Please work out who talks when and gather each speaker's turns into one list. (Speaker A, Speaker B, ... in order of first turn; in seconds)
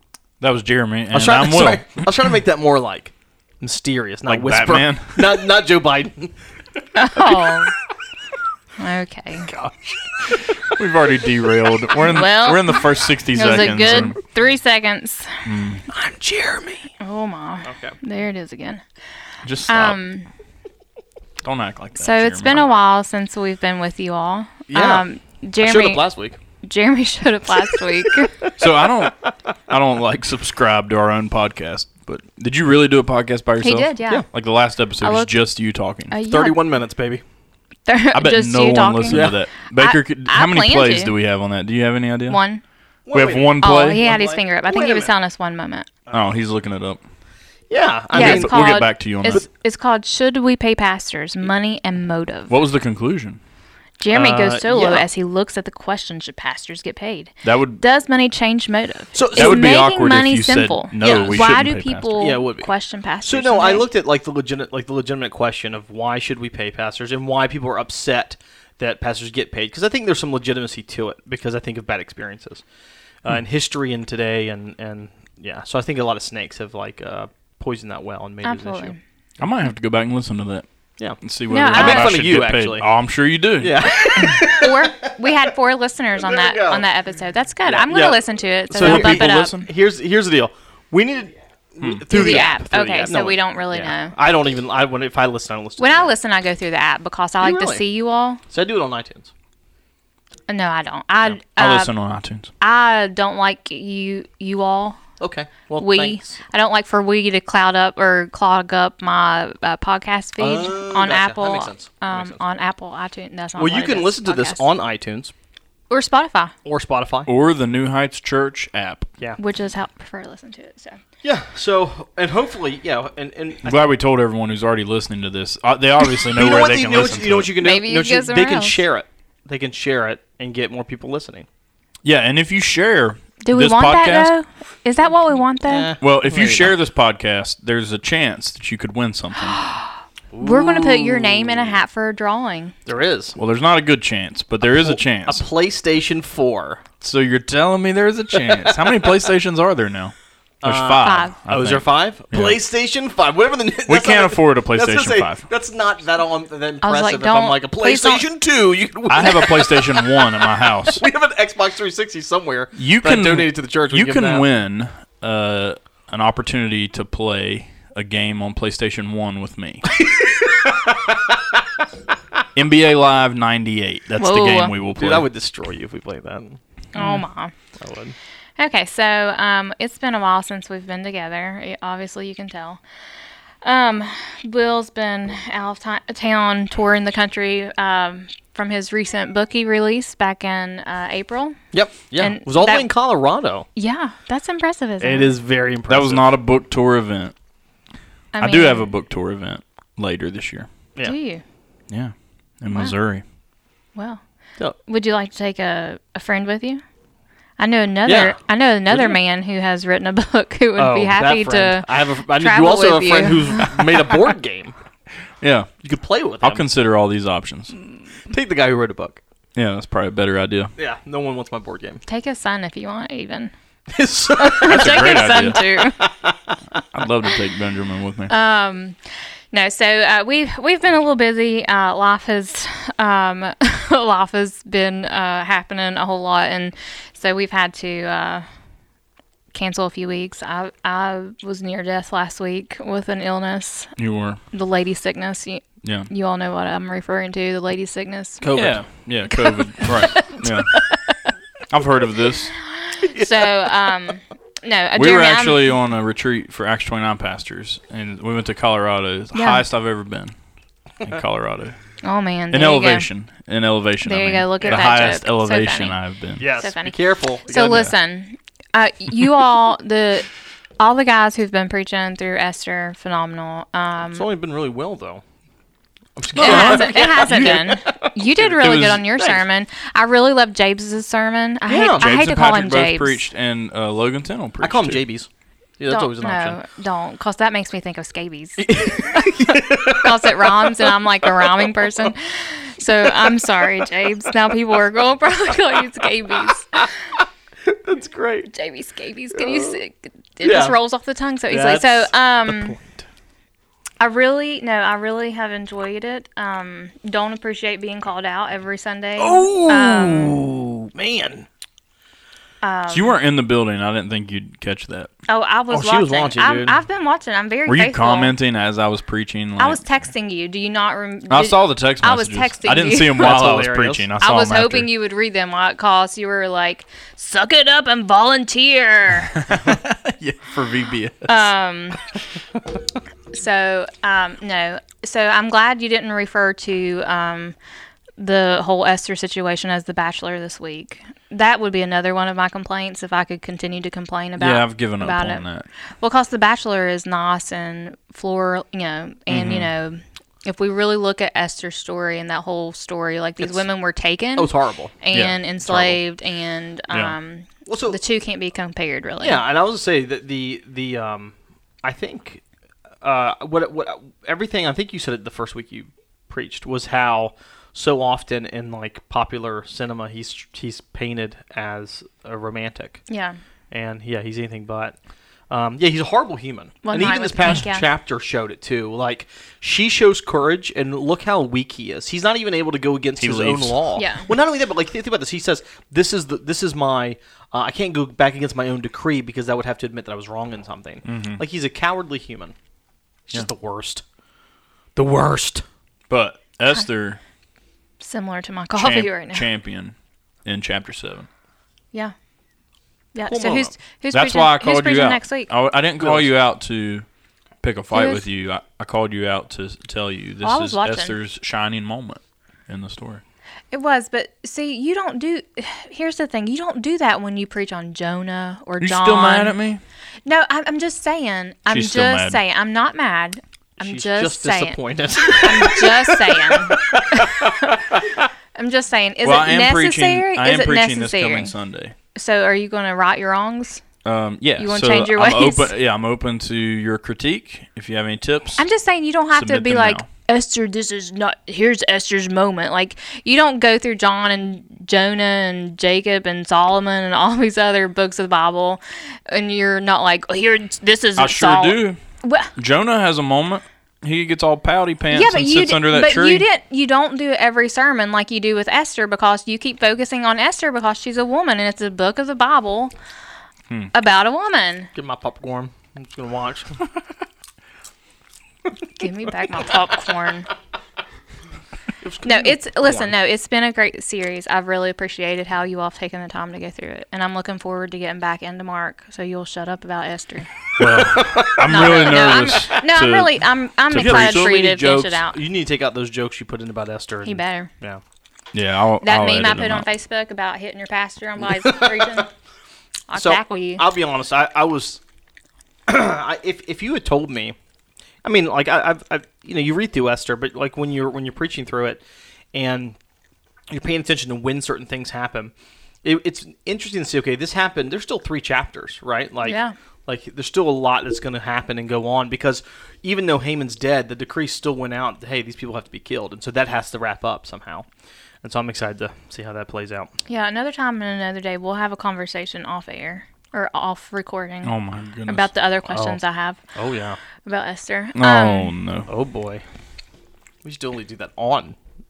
Speaker A: 0.4-2.0, 4.3-5.5, 10.6-14.2, 15.4-15.9, 19.4-20.0, 21.4-22.6, 28.6-36.1, 38.1-42.4, 43.1-44.0, 46.1-47.0, 48.1-49.4, 52.5-53.4, 57.4-57.8, 59.3-62.3, 79.4-80.7, 81.2-83.9, 88.8-89.7, 91.8-92.4, 101.6-102.5, 117.3-119.1, 123.7-127.5, 132.0-134.3, 136.0-139.6, 143.4-145.4, 147.0-152.6, 153.9-155.4, 159.1-161.1, 162.8-169.9, 172.6-175.3, 195.9-197.3, 198.4-200.7, 201.9-203.2, 215.4-215.7, 216.4-217.7, 219.6-220.7, 224.6-225.6, 226.9-228.3, 244.0-244.4, 245.8-246.1, 248.5-250.7, 251.7-252.5, 255.0-260.3, 261.0-261.8, 262.5-266.5, 267.6-267.9, 276.3-277.6, 278.5-279.1, 282.0-285.0, 312.9-315.1, 317.7-319.8, 321.3-324.9, 329.3-331.5, 344.4-345.7, 349.3-349.7, 356.9-357.2, 383.2-383.8, 391.1-391.4, 396.1-397.2, 398.8-401.3, 404.1-407.1, 407.6-413.2, 418.8-419.8, 421.7-422.4, 429.2-431.9, 434.0-438.6, 439.4-440.1, 451.2-452.0, 452.6-456.5, 480.8-483.4, 483.9-484.6, 488.5-489.9, 524.6-525.5, 528.1-529.1
Speaker B: 1.1-6.3, 7.2-7.6, 9.5-10.8, 15.9-16.9, 17.6-18.0, 24.7-25.1, 25.6-26.4, 28.2-29.1, 36.2-37.2, 39.1-39.4, 43.1-45.1, 46.1-46.3, 47.7-49.5, 54.1-55.1, 59.1-59.6, 61.0-61.5, 62.2-62.7, 63.2-72.6, 73.2-78.9, 81.0-82.9, 83.6-85.4, 86.2-86.9, 87.7-96.1, 97.4-97.8, 98.5-99.3, 105.2-106.4, 110.4-112.4, 113.6-115.3, 116.7-117.3, 121.2-123.8, 126.3-131.5, 135.4-136.7, 140.3-141.8, 142.9-143.4, 144.7-146.8, 150.6-164.4, 169.9-171.4, 174.9-176.6, 177.8-178.2, 191.7-193.7, 195.0-196.3, 208.1-209.2, 210.8-214.7, 215.8-216.7, 218.2-219.2, 220.8-222.0, 223.9-226.8, 248.4-248.9, 249.8-250.6, 253.0-254.1, 264.6-265.1, 266.4-267.9, 274.1-275.2, 276.2-279.4, 281.7-282.1, 284.6-285.3, 285.8-286.6, 288.6-292.1, 293.0-294.6, 296.3-296.6, 297.2-298.5, 299.4-299.8, 300.4-300.8, 301.5-303.0, 309.2-311.5, 315.7-316.8, 323.1-324.1, 354.4-355.0, 355.6-356.0, 357.7-358.0, 359.2-362.4, 363.0-373.1, 373.7-375.0, 375.5-392.6, 393.3-394.0, 395.0-395.6, 403.3-403.7, 406.0-406.3, 423.8-428.2, 464.9-466.9, 472.0-473.1, 480.8-482.8, 483.9-488.0, 491.6-492.2, 493.1-495.0, 495.9-497.6, 498.2-502.0, 502.5-503.0, 503.7-505.5, 506.0-517.9, 518.4-520.1, 525.9-526.2, 526.8-527.2, 529.1-529.6, 530.6-531.8
Speaker C: 6.9-7.7, 8.8-9.5, 12.0-15.5, 17.0-18.8, 19.7-20.3, 22.0-26.0, 26.6-28.4, 33.6-34.3, 35.0-35.4, 36.1-36.6, 37.9-41.1, 42.3-42.6, 43.6-45.9, 48.1-52.5, 54.0-63.9, 78.4-79.0, 81.5-82.1, 84.2-89.5, 92.1-94.1, 95.8-98.4, 100.5-101.9, 102.6-105.0, 105.8-114.6, 115.9-116.5, 119.4-121.0, 127.6-128.8, 133.4-135.9, 139.5-142.8, 151.0-151.3, 156.8-158.2, 174.2-174.7, 176.9-177.5, 178.6-182.8, 183.6-191.6, 192.2-192.9, 193.8-195.3, 198.3-198.9, 201.0-201.4, 202.7-203.0, 204.0-204.2, 204.8-206.8, 207.6-213.8, 222.1-223.5, 224.4-226.0, 228.3-229.0, 229.5-238.5, 239.5-243.9, 244.5-248.5, 249.3-250.5, 252.8-255.7, 259.3-259.6, 262.0-263.1, 264.0-267.0, 267.5-270.3, 270.8-274.2, 276.4-283.2, 285.9-297.0, 298.5-302.8, 304.0-310.4, 312.6-313.2, 315.3-318.3, 319.6-323.3, 324.2-329.5, 331.3-332.0, 333.3-337.6, 338.2-345.4, 346.0-359.4, 373.1-373.4, 376.8-377.9, 384.0-384.3, 398.0-399.4, 403.1-405.5, 407.9-408.2, 410.4-411.1, 413.7-419.6, 420.3-424.8, 425.3-427.8, 428.6-431.5, 432.1-433.8, 434.6-435.7, 438.6-452.5, 455.1-462.9, 463.9-464.9, 469.0-470.5, 472.2-480.5, 481.6-485.4, 487.2-487.7, 489.0-492.3, 493.1-493.8, 509.4-509.7, 520.3-524.8, 525.3-526.6, 527.4-528.7